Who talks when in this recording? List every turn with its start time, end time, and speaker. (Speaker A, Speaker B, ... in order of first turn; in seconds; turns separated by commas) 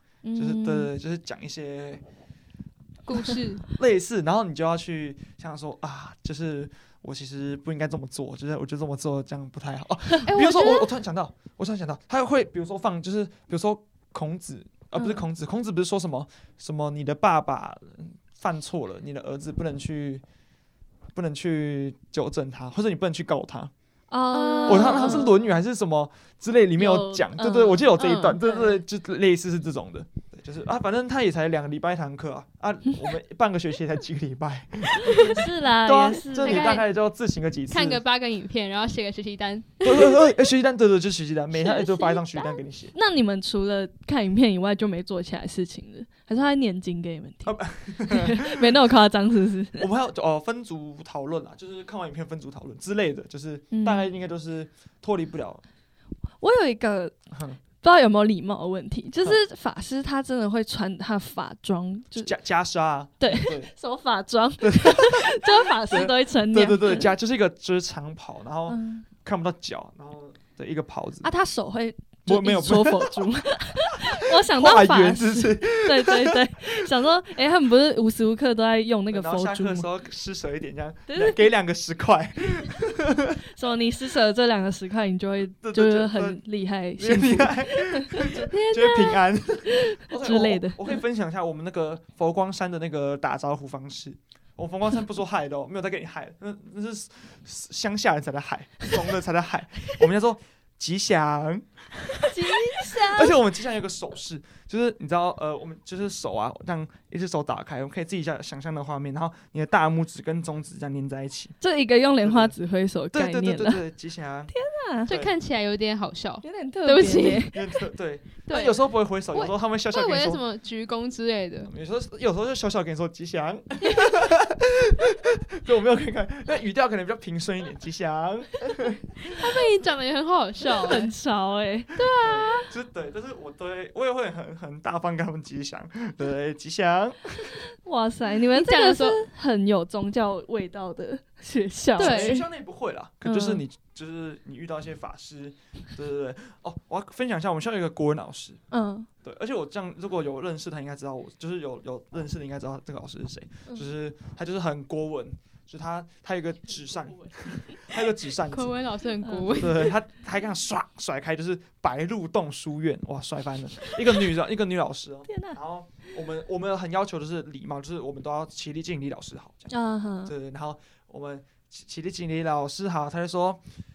Speaker A: 0.2-0.9, Speaker B: 0.3-2.0, Speaker C: 3.0-3.6, Speaker B: 3.7-20.2, Speaker A: 10.2-10.9, Speaker A: 14.9-15.2, Speaker B: 21.1-23.7, Speaker A: 24.1-25.4, Speaker C: 24.3-25.3, Speaker B: 24.6-38.0, Speaker A: 26.8-28.1, Speaker C: 28.0-28.8, Speaker A: 35.0-36.8, Speaker C: 36.4-36.8, Speaker C: 37.7-40.2, Speaker B: 39.8-42.9, Speaker A: 41.7-42.1, Speaker A: 42.9-49.9, Speaker B: 47.4-48.8, Speaker B: 49.8-55.6, Speaker A: 53.7-54.1, Speaker A: 56.4-57.1, Speaker B: 57.3-57.6, Speaker A: 57.8-62.3, Speaker B: 62.1-63.7, Speaker A: 63.2-67.1, Speaker B: 64.6-71.3, Speaker A: 68.7-69.1, Speaker A: 71.2-79.9, Speaker B: 72.2-73.3, Speaker B: 74.5-76.5, Speaker B: 79.1-83.3, Speaker A: 81.1-81.5, Speaker A: 83.5-88.2, Speaker B: 85.6-86.4, Speaker B: 87.0-101.7, Speaker C: 88.5-89.2, Speaker A: 90.1-91.0, Speaker A: 102.1-103.4, Speaker B: 103.1-111.5, Speaker A: 111.6-113.8, Speaker B: 112.2-112.6, Speaker B: 113.1-114.5, Speaker A: 114.5-115.1, Speaker B: 115.0-115.3, Speaker C: 115.0-117.5, Speaker A: 116.4-117.6, Speaker B: 117.5-120.4, Speaker C: 118.5-121.7, Speaker B: 121.6-129.2, Speaker C: 129.2-131.1, Speaker A: 130.9-131.9, Speaker C: 131.9-132.7, Speaker B: 132.2-137.6, Speaker A: 137.7-142.4, Speaker C: 138.5-139.2, Speaker C: 141.9-142.4, Speaker B: 141.9-148.6, Speaker A: 143.2-143.6, Speaker A: 148.7-149.1, Speaker B: 149.2-158.7, Speaker C: 158.5-159.9, Speaker A: 159.2-159.7, Speaker B: 159.6-169.7, Speaker A: 165.3-165.6, Speaker A: 169.7-170.3, Speaker B: 170.2-173.6